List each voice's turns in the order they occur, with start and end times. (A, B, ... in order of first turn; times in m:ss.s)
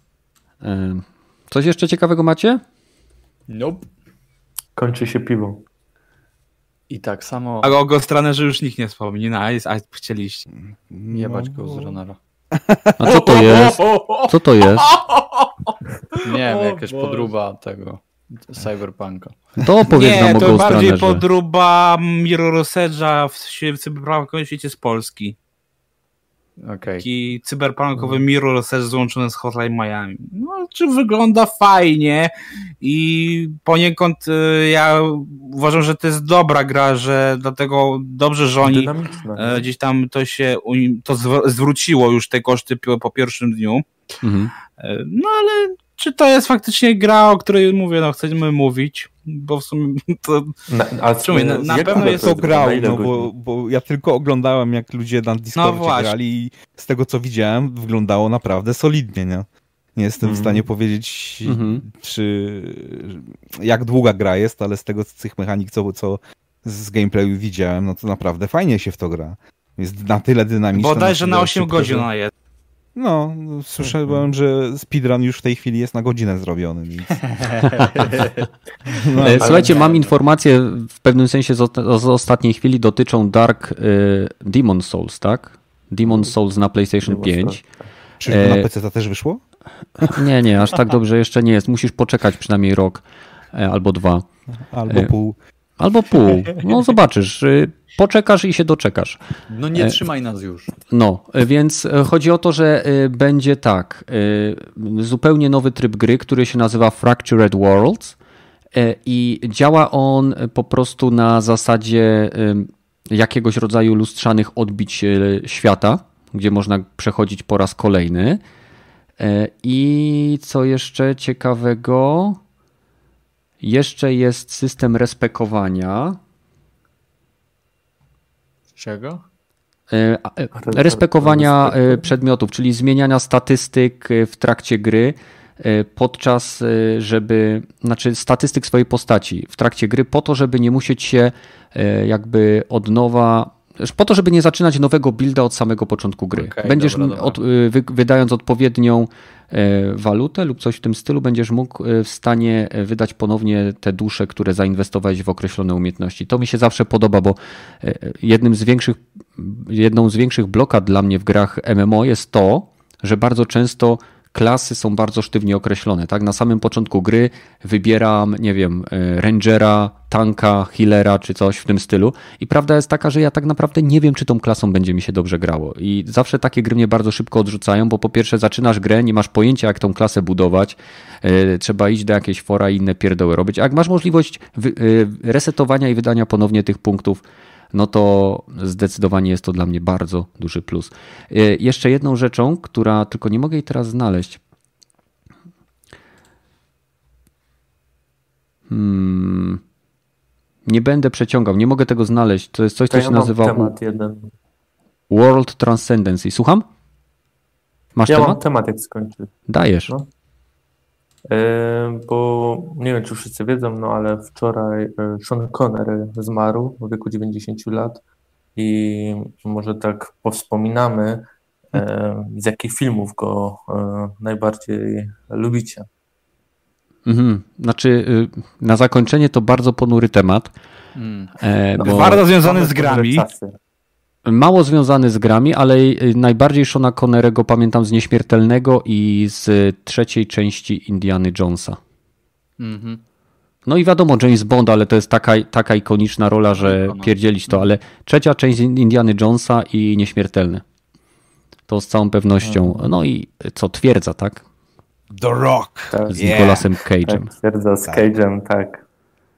0:00.6-0:02.6 A
0:03.5-0:03.9 B
0:04.8-0:05.6 C
0:06.9-0:07.8 B
0:07.6-0:10.5 D
0:10.5-0:12.0 E
0:11.1-0:12.2 B
0:12.5-0:13.8 E
0:13.0-0:14.9 A
0:13.3-0:14.0 D
0:16.2-0:19.4 B
0:16.5-0:17.2 D
0:19.6-0:21.2 A
0:19.9-0:25.4 D
0:26.6-0:27.0 B
0:27.0-0:43.9 D
0:28.0-0:28.2 C
0:38.6-0:39.7 C
0:44.2-0:44.5 A
0:44.8-0:50.5 D
0:50.7-0:53.3 C
0:51.2-0:52.4 D
0:51.4-1:12.1 E
0:55.6-0:56.1 D
1:00.2-1:00.6 C
1:01.4-1:01.8 A
1:10.7-1:12.3 D
1:13.0-1:18.1 E
1:17.5-1:18.5 B
1:19.0-1:19.6 E
1:19.2-1:20.0 C
1:19.2-1:27.6 A
1:19.3-1:20.1 B
1:27.0-1:27.7 C
1:28.2-1:29.4 E
1:28.2-1:28.7 A
1:30.1-1:34.3 A
1:34.7-1:35.4 E
1:34.9-1:35.1 A
1:35.8-1:39.2 A
1:39.5-1:40.7 B
1:39.8-1:40.0 A
1:40.9-1:48.2 A
1:48.7-1:58.4 A
1:59.2-2:02.4 A
2:03.6-2:06.2 A
2:08.8-2:09.2 B
2:09.9-3:14.4 A
2:10.6-2:12.1 C
2:26.3-2:27.4 B
3:18.7-3:19.6 A
3:20.7-3:23.7 A
3:22.9-3:24.3 C
3:25.1-3:26.7 A
3:28.0-3:28.4 A
3:28.1-3:29.3 C
3:29.5-3:29.9 A
3:31.3-3:38.0 C
3:38.6-3:45.8 C
3:47.0-3:50.5 A
3:51.0-3:51.3 B
3:51.4-3:52.2 A
3:51.8-3:53.5 C
3:51.8-3:53.3 D
3:54.2-4:01.8 A
4:02.6-4:03.0 B
4:03.7-4:10.6 A
4:06.6-4:07.1 B
4:11.7-4:14.4 A
4:12.4-4:12.9 C
4:15.1-4:16.7 E
4:15.9-4:16.4 C
4:16.1-4:17.3 A
4:17.1-4:18.8 C